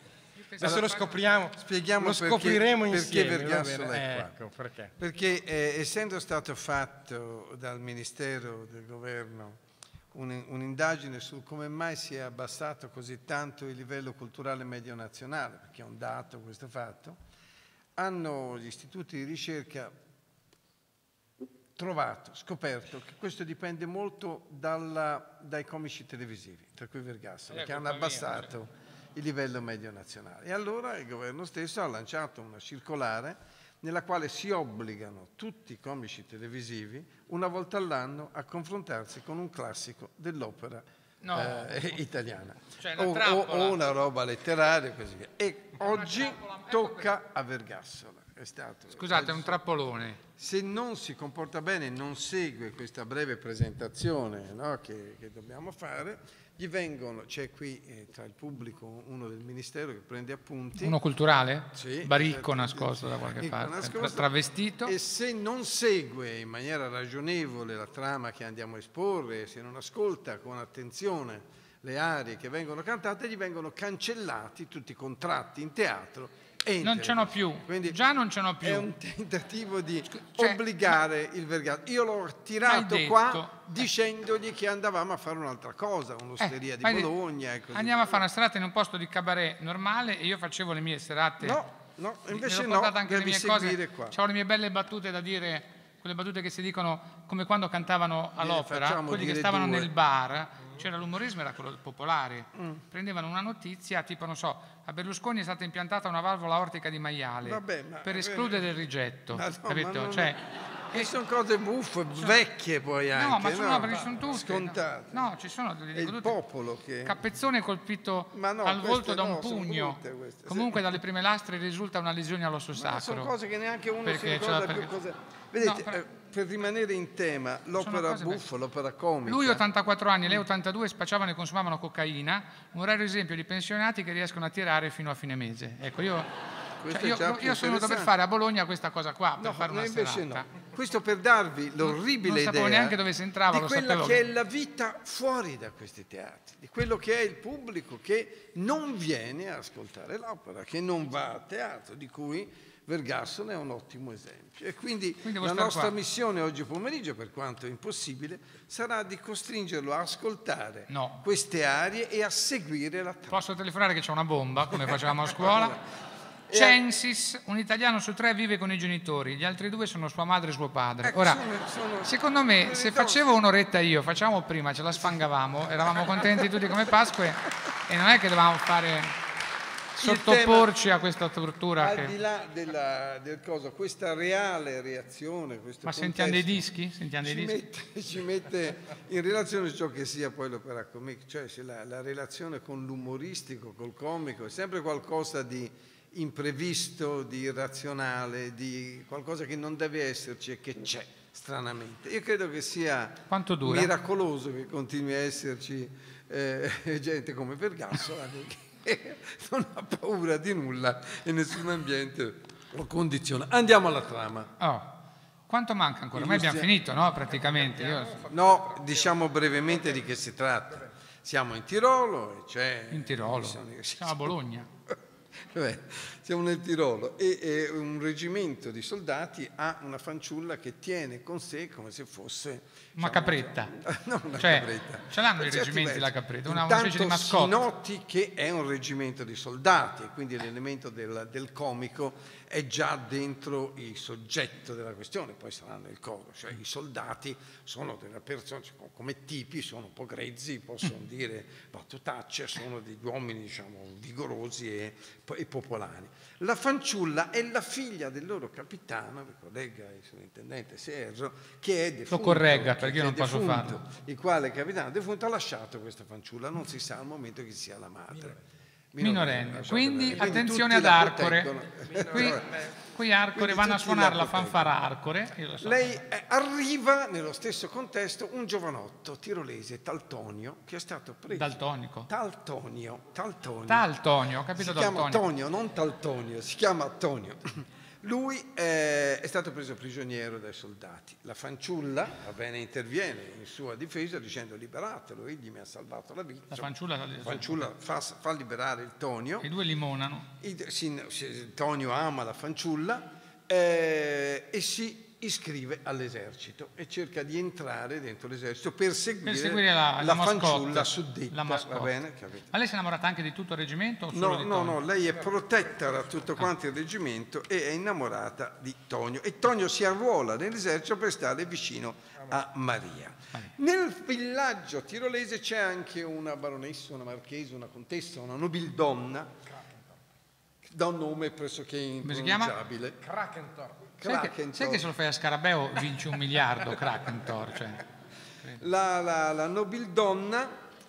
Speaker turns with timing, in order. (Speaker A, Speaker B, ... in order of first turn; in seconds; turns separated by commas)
Speaker A: 0.4-1.2, Speaker B: 0.6-4.9, Speaker C: 1.6-4.3, Speaker C: 5.0-9.6, Speaker C: 10.1-17.2, Speaker C: 18.0-19.9, Speaker C: 21.8-49.6, Speaker A: 27.5-28.5, Speaker A: 41.2-41.8, Speaker A: 42.8-43.8, Speaker A: 45.8-47.1, Speaker A: 48.9-50.2, Speaker C: 50.4-61.0, Speaker A: 60.8-64.9, Speaker C: 61.7-64.3, Speaker C: 64.8-78.0, Speaker A: 76.8-78.9, Speaker C: 78.6-88.2, Speaker A: 80.1-80.6, Speaker A: 82.6-83.8, Speaker A: 86.4-87.1, Speaker A: 87.7-91.6, Speaker C: 91.4-94.2, Speaker A: 92.3-110.4, Speaker C: 98.4-99.9, Speaker C: 102.6-102.8, Speaker C: 107.4-108.7, Speaker C: 109.3-110.4, Speaker C: 110.9-115.3, Speaker A: 113.1-116.4, Speaker C: 115.9-117.2, Speaker A: 117.0-123.3, Speaker C: 118.3-120.8, Speaker C: 122.7-129.6, Speaker A: 124.0-124.9, Speaker A: 125.6-126.0, Speaker A: 127.8-128.4, Speaker A: 129.2-136.3, Speaker C: 136.8-138.1, Speaker A: 136.9-140.5, Speaker C: 139.4-143.0, Speaker A: 141.8-144.2, Speaker C: 143.5-163.5, Speaker A: 155.2-155.9, Speaker A: 160.9-161.2, Speaker A: 163.3-165.8, Speaker C: 164.8-165.8, Speaker C: 166.5-166.8, Speaker A: 166.5-171.4, Speaker C: 171.0-173.3, Speaker A: 172.0-179.2, Speaker C: 176.1-176.4, Speaker A: 179.9-182.1, Speaker C: 180.0-180.8, Speaker C: 181.8-186.6, Speaker A: 185.8-187.6, Speaker C: 187.2-214.5, Speaker A: 203.3-203.9, Speaker A: 214.6-218.3, Speaker C: 216.1-216.7, Speaker B: 217.5-219.0, Speaker C: 218.3-224.4, Speaker A: 222.9-224.7, Speaker C: 224.9-268.4, Speaker A: 232.9-233.8, Speaker A: 234.4-237.6, Speaker A: 262.1-263.8, Speaker C: 268.9-272.4, Speaker A: 269.0-271.5, Speaker B: 271.9-272.5, Speaker A: 272.1-276.0, Speaker C: 273.3-274.8, Speaker C: 275.6-283.9, Speaker A: 281.3-282.1, Speaker A: 283.7-285.2, Speaker C: 284.6-299.5, Speaker A: 296.5-297.7, Speaker A: 299.4-300.3, Speaker C: 300.4-312.5, Speaker A: 309.2-312.0, Speaker A: 312.5-314.8, Speaker C: 314.1-329.3, Speaker C: 330.6-333.0, Speaker A: 332.0-332.6, Speaker B: 333.0-333.8, Speaker C: 334.0-334.9, Speaker A: 334.0-337.8, Speaker C: 338.6-340.6